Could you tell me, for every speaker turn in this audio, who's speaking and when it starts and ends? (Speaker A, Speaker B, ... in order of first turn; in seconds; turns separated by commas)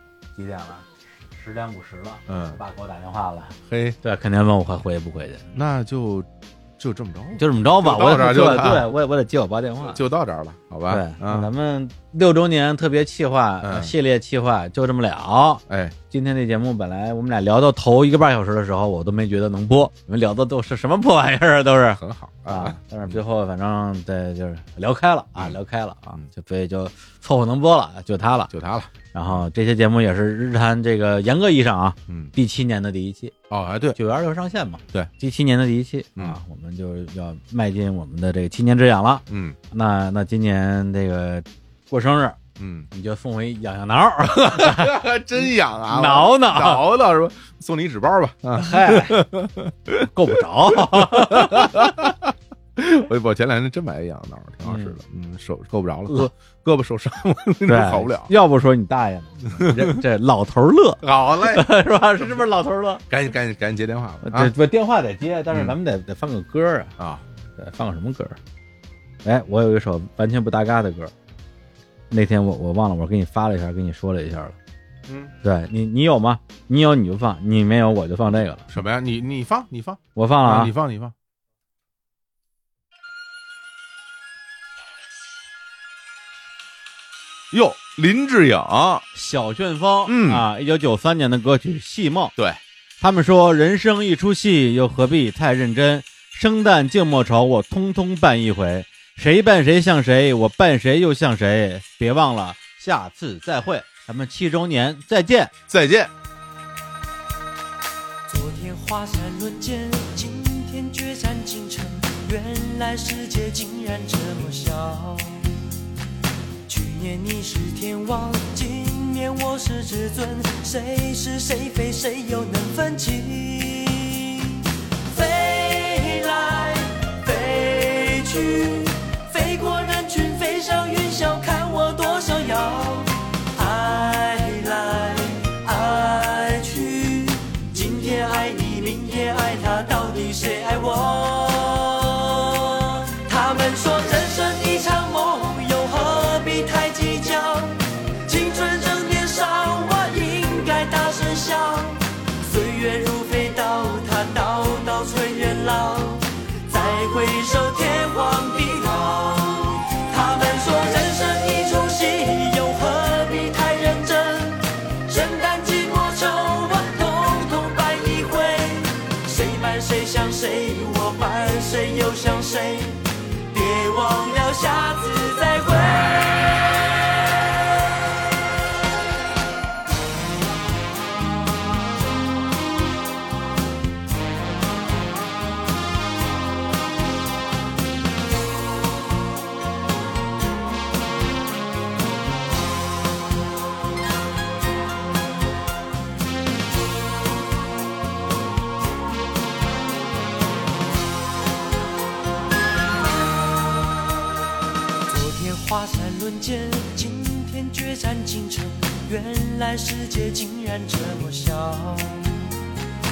Speaker A: 0.4-5.5, Speaker B: 2.3-2.6, Speaker B: 3.6-4.0, Speaker B: 5.5-8.9, Speaker A: 7.4-10.0, Speaker B: 9.8-11.5, Speaker A: 10.9-28.5, Speaker B: 13.6-13.9, Speaker B: 15.7-16.0, Speaker B: 22.0-23.2, Speaker B: 25.4-26.3, Speaker B: 28.5-29.5, Speaker A: 29.1-33.3, Speaker B: 32.1-32.3, Speaker B: 33.5-34.0, Speaker A: 34.0-42.4, Speaker B: 39.3-39.6, Speaker B: 42.6-42.9, Speaker A: 42.9-45.0, Speaker B: 44.3-58.3, Speaker A: 45.9-46.9, Speaker A: 48.5-49.3, Speaker A: 50.1-51.8, Speaker A: 54.6-55.0, Speaker A: 57.7-63.0, Speaker B: 59.5-60.0, Speaker B: 61.0-61.7, Speaker B: 63.1-64.5, Speaker A: 64.2-66.9, Speaker B: 65.5-65.8, Speaker B: 67.0-67.2, Speaker A: 67.6-68.4, Speaker A: 69.2-71.1, Speaker A: 72.1-74.6, Speaker B: 75.1-75.3, Speaker A: 75.4-78.7, Speaker B: 78.7-81.2, Speaker A: 80.2-80.7, Speaker B: 87.5-89.1, Speaker A: 89.1-92.3, Speaker B: 90.1-90.5, Speaker A: 93.0-105.5, Speaker B: 105.7-106.1, Speaker C: 108.3-115.6, Speaker C: 116.7-176.9, Speaker C: 205.1-212.6